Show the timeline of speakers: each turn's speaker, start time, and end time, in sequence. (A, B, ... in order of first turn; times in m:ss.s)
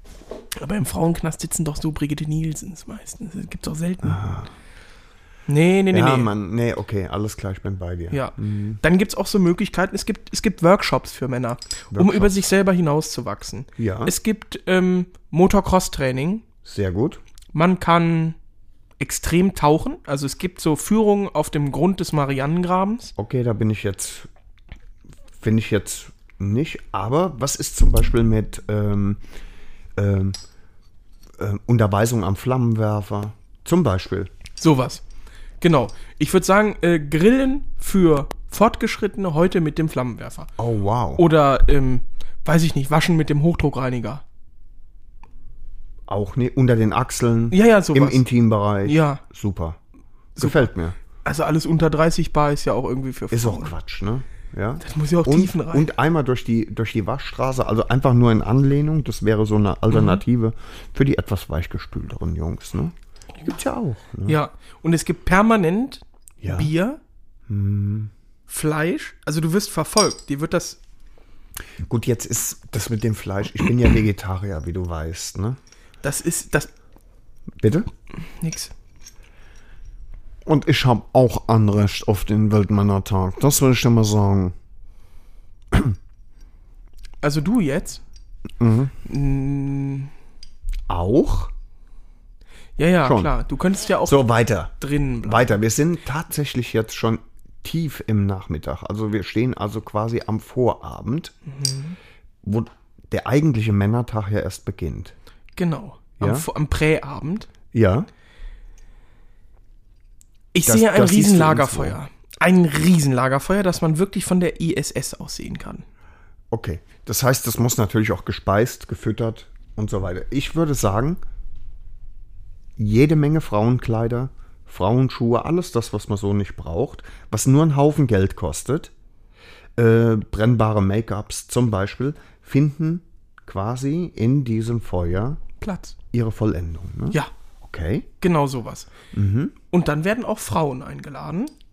0:00.6-0:04.2 A
0:04.0-0:04.5 B
0:05.5-0:06.3 A
0:05.9-0:08.8 B
0:08.1-0:16.4 A
0:11.9-0:12.5 B
0:13.8-0:14.1 B
0:16.6-0:17.2 B
0:17.5-0:18.4 A
0:19.0-0:23.1 A
0:23.2-0:24.3 B
0:25.4-0:29.2 B
0:30.0-0:30.3 B
0:31.4-0:34.3 B
0:34.6-0:35.0 A
0:35.6-0:40.5 A
0:40.6-0:41.2 B
0:41.2-0:44.2 A
0:46.1-0:49.8 B
0:47.5-0:48.2 A
0:48.8-0:49.2 A
0:50.4-0:53.7 A
0:50.4-0:51.0 B
0:53.3-1:02.9 B
0:54.8-0:55.9 A
0:59.9-1:00.2 A
1:03.4-1:04.4 B
1:04.2-1:07.0 A
1:06.4-1:06.7 B
1:07.5-1:08.1 B
1:08.5-1:10.8 A
1:11.8-1:15.6 B
1:16.0-1:16.7 A
1:17.6-1:17.9 B
1:18.2-1:18.7 A
1:20.4-1:24.6 B
1:27.2-1:28.0 A
1:28.6-1:28.9 B
1:29.0-1:30.1 A
1:30.9-1:31.5 B
1:32.8-1:35.6 A
1:33.0-1:33.3 B
1:34.0-1:41.3 B
1:41.4-1:42.0 A
1:42.4-1:45.1 B
1:45.6-1:47.5 A
1:46.2-1:46.5 B
1:47.7-1:48.1 B
1:50.5-1:55.8 A
1:50.6-1:52.0 B
1:56.5-2:01.2 B
2:02.8-2:08.9 B
2:09.8-2:15.4 B
2:15.6-2:16.0 A
2:16.1-2:18.1 B
2:18.2-2:18.9 A
2:19.1-2:19.6 B
2:19.7-2:21.5 A